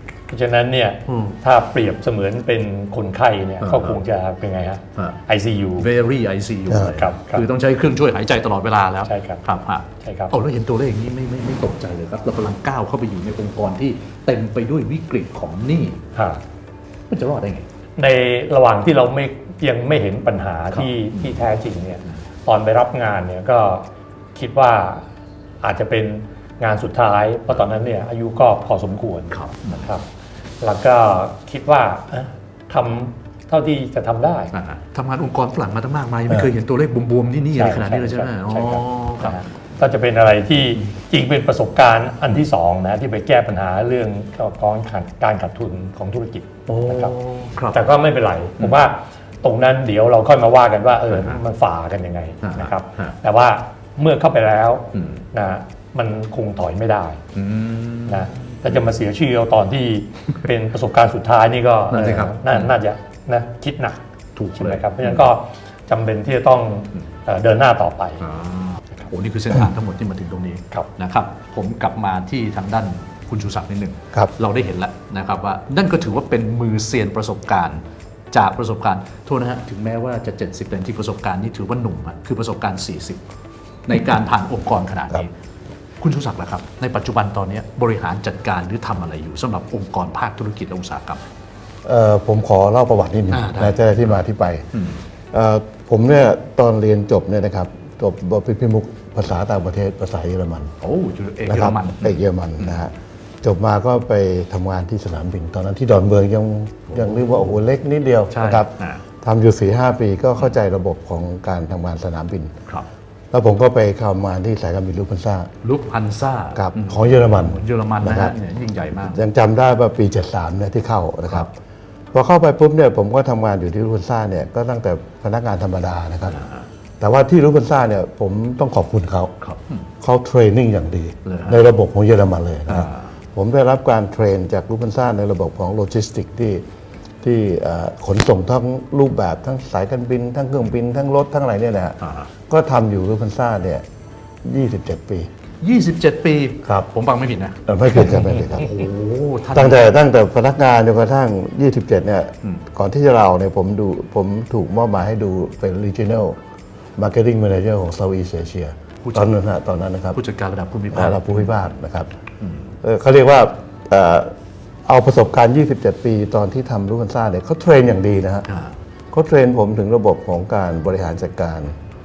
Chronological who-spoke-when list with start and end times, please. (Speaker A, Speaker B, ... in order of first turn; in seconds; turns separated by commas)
Speaker A: 0.3-5.9, Speaker B: 1.1-1.4, Speaker B: 3.6-4.0, Speaker B: 5.8-16.0, Speaker A: 6.8-7.5, Speaker A: 9.1-9.4, Speaker A: 10.0-10.3, Speaker A: 16.1-16.4, Speaker B: 17.1-17.7, Speaker A: 18.0-25.1, Speaker B: 20.7-21.4, Speaker A: 25.6-30.1, Speaker B: 29.3-29.9, Speaker A: 30.6-34.5, Speaker B: 34.5-39.4, Speaker A: 37.5-47.1, Speaker B: 46.7-47.9, Speaker A: 47.7-57.2, Speaker B: 51.1-51.4, Speaker B: 52.4-53.1, Speaker B: 54.9-55.2, Speaker B: 57.4-58.3, Speaker A: 58.1-64.0, Speaker B: 61.9-62.7, Speaker B: 64.4-65.2, Speaker A: 64.6-68.2, Speaker B: 68.2-83.2, Speaker B: 83.9-85.3, Speaker B: 86.0-91.2, Speaker C: 91.8-94.7, Speaker B: 93.3-94.2, Speaker B: 94.8-95.0, Speaker C: 95.3-100.7, Speaker B: 100.8-102.8, Speaker C: 101.5-108.7, Speaker B: 106.9-107.6, Speaker B: 108.3-109.0, Speaker C: 109.2-112.5, Speaker C: 113.3-115.5, Speaker B: 115.6-119.2, Speaker C: 116.5-118.3, Speaker C: 119.0-121.5, Speaker C: 122.1-126.4, Speaker B: 126.3-126.6, Speaker C: 127.0-129.3, Speaker B: 129.4-129.8, Speaker C: 130.0-136.6, Speaker B: 131.2-131.7, Speaker B: 132.7-133.0, Speaker C: 137.2-142.0, Speaker B: 142.0-142.3, Speaker C: 142.5-143.8, Speaker C: 144.4-145.3, Speaker B: 145.6-150.0, Speaker C: 147.7-148.7, Speaker C: 149.5-156.4, Speaker C: 157.0-160.2, Speaker B: 159.0-159.3, Speaker B: 160.1-161.6, Speaker C: 160.9-162.1, Speaker C: 162.8-164.3, Speaker C: 164.9-168.5, Speaker B: 168.5-168.7, Speaker C: 169.1-171.8